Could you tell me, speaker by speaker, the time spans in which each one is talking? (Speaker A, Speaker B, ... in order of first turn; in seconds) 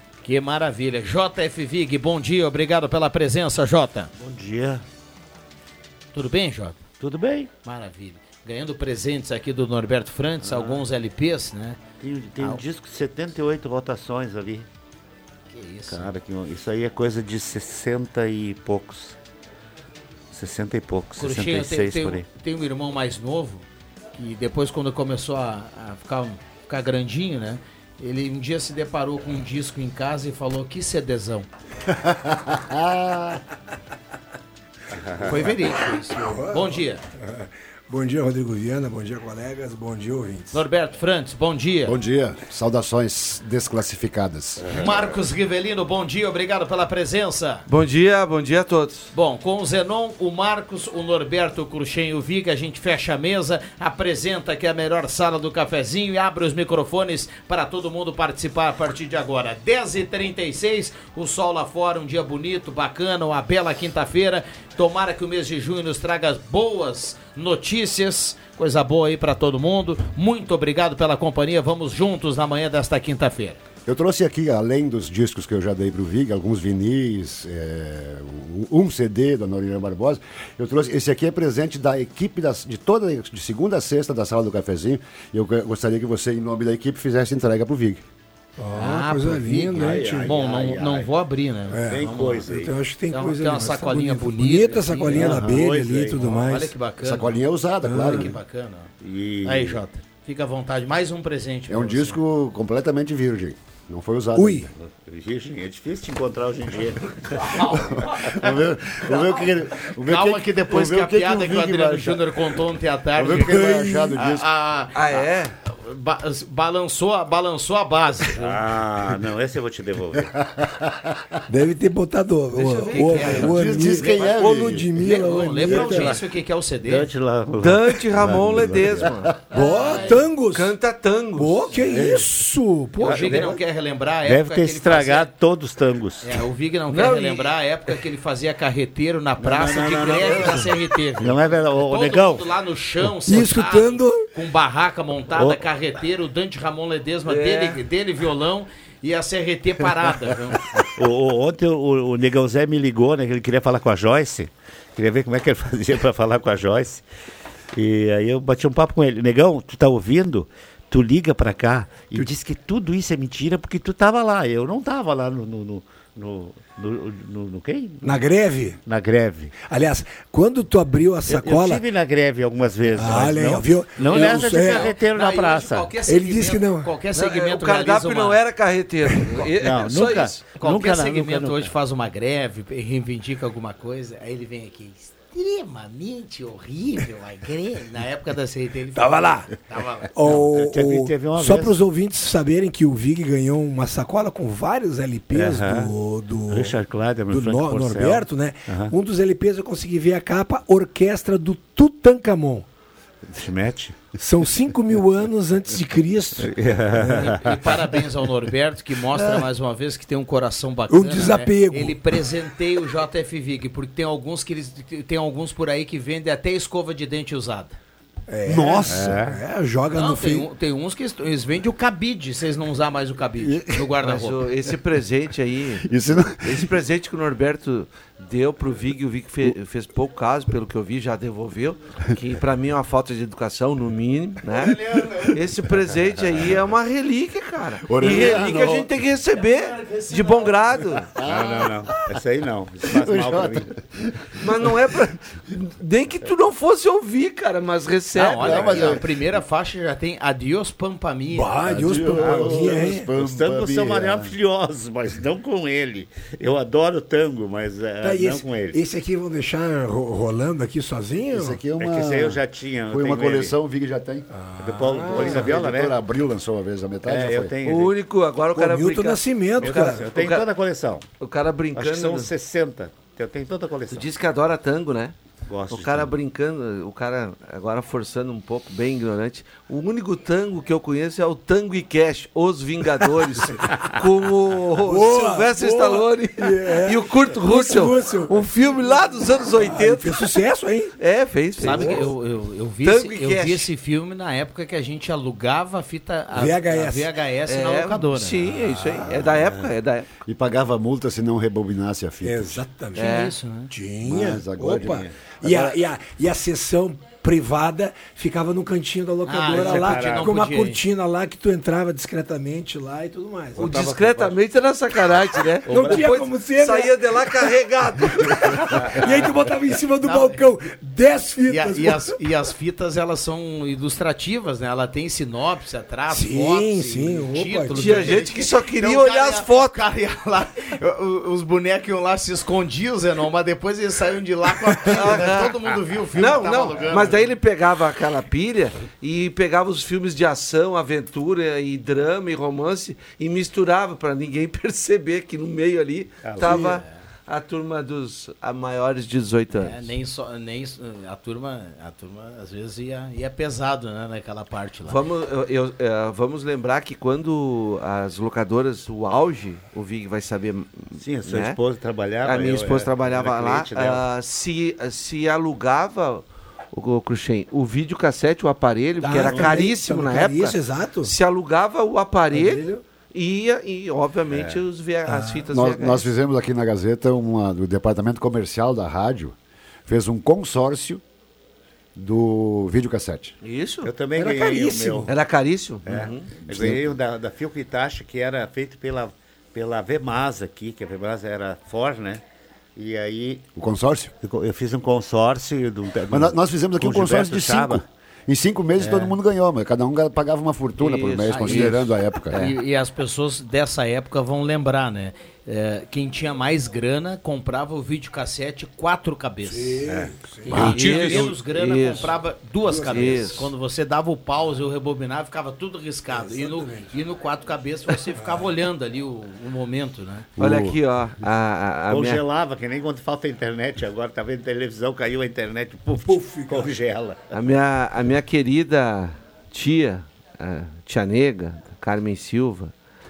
Speaker A: 0.2-4.1, 6.1-6.8, 7.6-11.8, 15.5-16.1, 21.2-23.6, 24.2-31.5, 35.2-37.0, 40.5-42.0, 44.7-47.6, 49.1-73.6, 88.7-92.3, 93.1-95.5, 96.2-97.3, 98.0-98.9, 99.4-102.2, 107.5-107.8, 110.0-114.9, 115.7-118.5, 122.8-123.5, 125.0-127.1, 129.5-130.1, 133.0-135.3, 136.2-150.7, 174.1-178.4, 180.4-190.1, 207.3-217.8, 219.9-224.4, 248.2-251.5, 291.6-298.4, 302.9-303.7, 309.2-310.8, 315.7-316.0, 320.0-320.4, 321.5-337.2, 349.6-355.0, 401.3-401.8, 402.3-409.8, 410.4-420.3
Speaker B: 4.2-4.8, 7.0-7.5, 10.4-10.8, 12.0-14.7, 15.9-19.1, 20.3-22.2, 34.9-35.2, 89.7-91.1, 91.8-92.8, 95.1-96.3, 99.0-99.8, 104.8-109.4, 118.3-120.4, 124.0-124.3, 125.6-126.2, 126.8-129.1, 129.8-130.2, 131.7-132.3, 133.0-133.6, 134.2-136.3, 139.4-142.5, 145.3-145.6, 150.9-157.0, 157.7-168.2, 168.8-169.5, 171.3-175.9, 179.4-181.7, 190.2-191.8, 195.3-195.9, 196.5-198.9, 203.3-204.1, 206.4-208.0, 218.8-219.4, 238.0-238.7, 241.2-243.7, 248.4-249.0, 251.7-258.8, 261.8-263.5, 264.6-265.9, 267.0-267.9, 269.6-271.0, 271.7-274.1, 275.5-276.1, 304.8-305.4, 309.5-310.3, 313.5-314.4, 318.9-319.3, 346.2-346.8, 360.9-364.0, 374.3-374.6, 383.8-385.1, 385.9-392.2, 392.8-393.5, 394.2-397.8, 398.8-399.1, 421.9-427.3
Speaker C: 31.9-33.4, 41.8-44.8, 73.8-88.0, 97.0-98.3, 101.7-104.7, 108.1-112.2, 113.2-114.5, 123.4-124.9, 218.5-219.3, 223.4-223.9, 225.8-226.7, 237.9-238.8, 241.1-241.8, 242.9-244.1, 248.4-249.0, 251.7-254.3, 261.3-264.3, 265.1-267.5, 300.2-302.6, 304.0-305.8, 375.5-379.3, 379.9-381.0, 381.9-383.3, 386.4-386.9, 393.6-394.1, 396.1-402.4, 420.4-420.8
Speaker D: 36.2-40.6, 88.6-90.3, 91.7-96.7, 97.8-98.3, 104.3-104.7, 121.5-126.2, 129.5-130.7, 131.3-133.6, 143.3-144.2, 168.0-168.8, 169.6-171.8, 172.9-174.9, 176.1-176.9, 189.0-189.5, 190.1-196.8, 197.3-202.7, 204.2-207.4, 210.9-212.0, 218.3-220.4, 251.3-253.1, 258.0-261.6, 264.3-265.5, 268.5-270.0, 284.8-288.5, 289.4-290.9, 291.6-292.1, 296.3-297.1, 302.2-303.2, 303.7-313.7, 315.7-322.2, 326.1-328.2, 369.0-371.1, 372.3-372.8, 375.1-375.4, 384.1-385.1, 409.5-410.7, 412.7-413.1, 416.1-416.9, 426.0-426.7
Speaker E: 47.7-49.1, 114.9-115.5, 122.5-123.3, 127.6-129.3, 130.5-131.6, 136.9-137.5, 147.2-147.8, 177.1-180.4, 224.0-241.1, 244.4-248.9, 267.6-270.5, 271.2-272.3, 273.9-275.1, 275.7-290.4, 291.0-292.1, 292.8-293.7, 297.5-300.1, 302.9-303.3, 313.6-319.1, 327.8-329.7, 334.9-335.5, 336.1-349.9, 354.9-361.6, 362.2-376.1, 383.4-383.9, 385.1-386.3, 400.8-402.5, 410.5-412.2, 412.9-413.5, 420.4-422.2, 427.3-432.7